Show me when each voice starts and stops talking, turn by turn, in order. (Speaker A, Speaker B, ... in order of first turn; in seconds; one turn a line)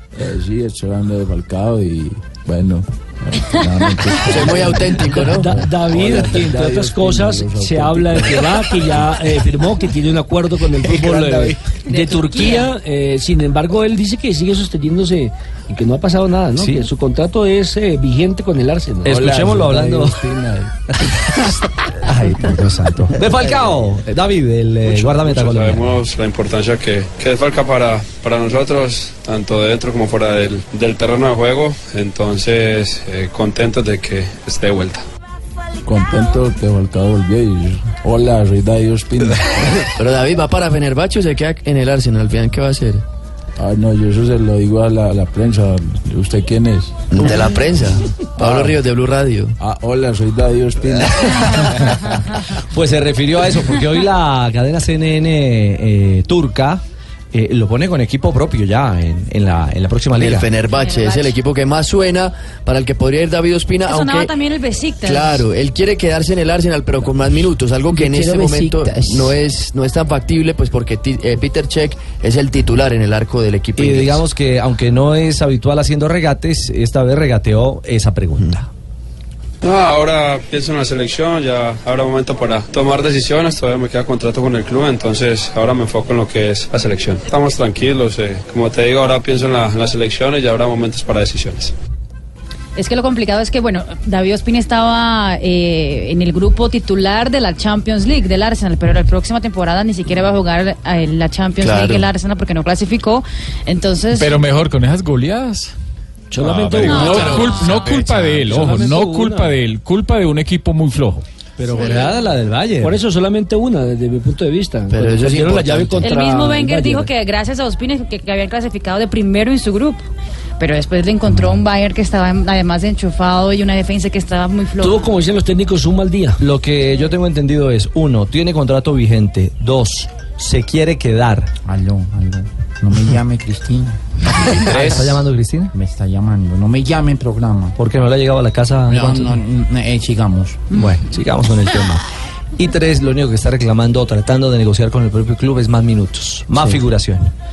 Speaker A: 0.1-9.0
Speaker B: 4.2-5.6
Speaker C: 5.1-20.1
Speaker D: 11.9-12.7
Speaker E: 16.6-16.9
Speaker E: 19.1-20.2
Speaker A: 19.2-20.7
Speaker E: 22.0-25.9
Speaker C: 24.9-25.1
Speaker F: 25.2-35.0
Speaker A: 35.9-39.9
Speaker B: 40.0-43.0
Speaker A: 43.6-47.2
Speaker B: 47.1-49.5
Speaker A: 48.4-48.8
Speaker A: 49.6-51.9
Speaker D: 51.5-51.9
Speaker E: 52.7-60.5
Speaker B: 60.1-64.3
Speaker D: 60.8-61.4
Speaker D: 63.9-65.5
Speaker B: 65.0-74.2
Speaker G: 68.2-69.3
Speaker E: 73.8-78.7
Speaker F: 79.6-91.7
Speaker D: 92.8-104.3
Speaker B: 101.6-102.1
Speaker H: 104.2-105.7
Speaker C: 106.3-109.6
Speaker H: 106.4-111.2
Speaker D: 106.8-108.0
Speaker E: 111.6-113.0
Speaker C: 112.8-117.1
Speaker B: 114.9-116.1
Speaker D: 116.0-120.1
Speaker D: 120.6-125.1
Speaker C: 124.8-126.4
Speaker E: 126.4-131.5
Speaker G: 131.7-135.2
Speaker E: 134.5-135.7
Speaker G: 135.7-137.8
Speaker E: 137.8-139.4
Speaker G: 138.9-140.8
Speaker E: 140.7-142.0
Speaker E: 142.6-147.3